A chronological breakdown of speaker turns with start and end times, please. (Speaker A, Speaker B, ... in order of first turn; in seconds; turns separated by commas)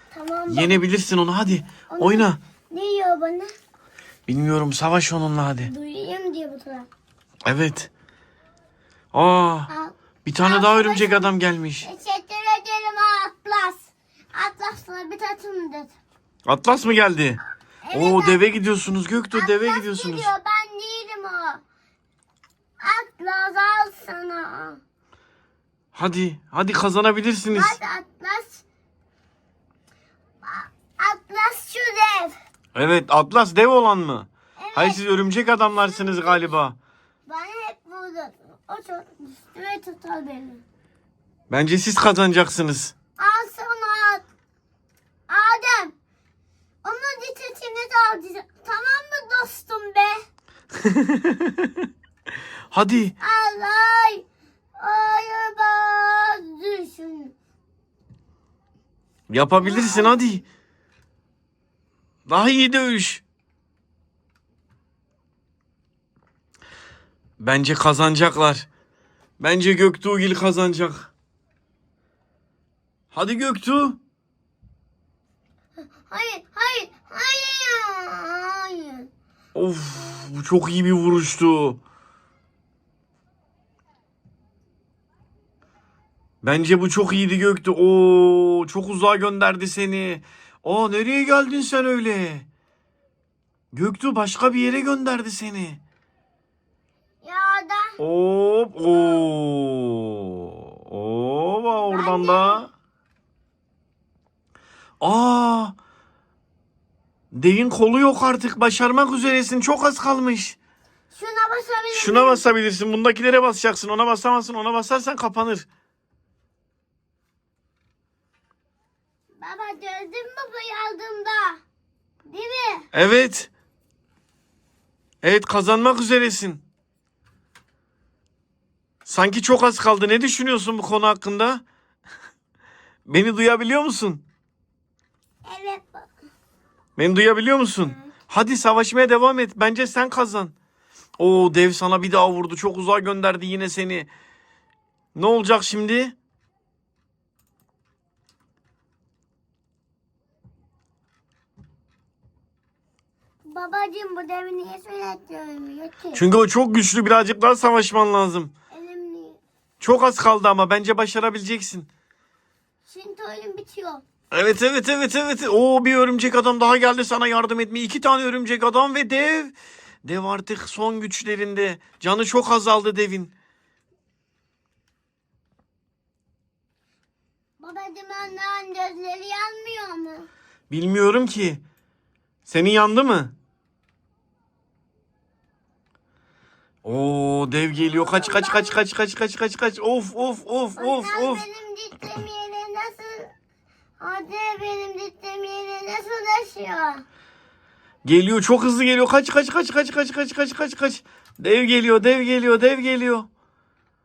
Speaker A: 0.1-0.8, Speaker B: 0.5-2.4, Speaker A: 1.9-3.5, Speaker B: 4.3-5.7, Speaker A: 5.6-6.9, Speaker B: 7.5-7.9, Speaker B: 9.1-9.7, Speaker A: 9.7-11.3, Speaker B: 10.2-11.9, Speaker A: 11.8-15.9, Speaker B: 16.5-17.4, Speaker A: 17.9-18.4, Speaker B: 17.9-20.3, Speaker A: 19.3-21.6, Speaker A: 22.8-24.8, Speaker B: 25.9-27.8, Speaker A: 27.5-28.6, Speaker A: 30.4-32.4, Speaker B: 32.8-36.8, Speaker A: 34.6-35.0, Speaker A: 36.0-36.3, Speaker A: 37.3-40.6, Speaker B: 41.5-42.9, Speaker A: 43.2-44.3, Speaker A: 45.3-46.0, Speaker A: 46.8-50.2, Speaker B: 50.8-51.7, Speaker B: 52.7-53.1, Speaker A: 53.2-54.2, Speaker A: 54.8-57.4, Speaker B: 59.3-60.4, Speaker A: 59.6-60.4, Speaker B: 62.3-63.2, Speaker B: 67.4-68.7, Speaker B: 69.4-71.1, Speaker B: 73.1-74.0, Speaker A: 75.9-79.1, Speaker B: 79.5-81.8, Speaker B: 86.4-92.5, Speaker B: 93.7-95.8, Speaker A: 97.2-98.0, Speaker B: 98.0-102.7, Speaker A: 101.9-102.6, Speaker B: 105.0-105.8, Speaker B: 107.3-110.6, Speaker A: 111.1-112.4, Speaker B: 111.9-115.7, Speaker A: 119.4-121.6, Speaker A: 122.3-122.9, Speaker B: 122.9-123.5, Speaker B: 125.2-126.6, Speaker B: 129.1-131.6, Speaker B: 133.1-134.2, Speaker A: 135.5-136.1, Speaker B: 137.0-140.5, Speaker B: 141.2-144.1, Speaker B: 145.2-146.2, Speaker A: 153.5-156.3, Speaker B: 156.1-158.5, Speaker A: 158.7-159.4, Speaker B: 159.8-161.9, Speaker A: 162.9-164.0, Speaker B: 164.3-173.3, Speaker A: 177.6-180.3, Speaker B: 180.7-181.6, Speaker B: 182.5-183.3, Speaker B: 186.8-191.4, Speaker A: 187.9-188.8, Speaker A: 190.8-193.3, Speaker A: 194.0-197.0, Speaker B: 198.1-203.3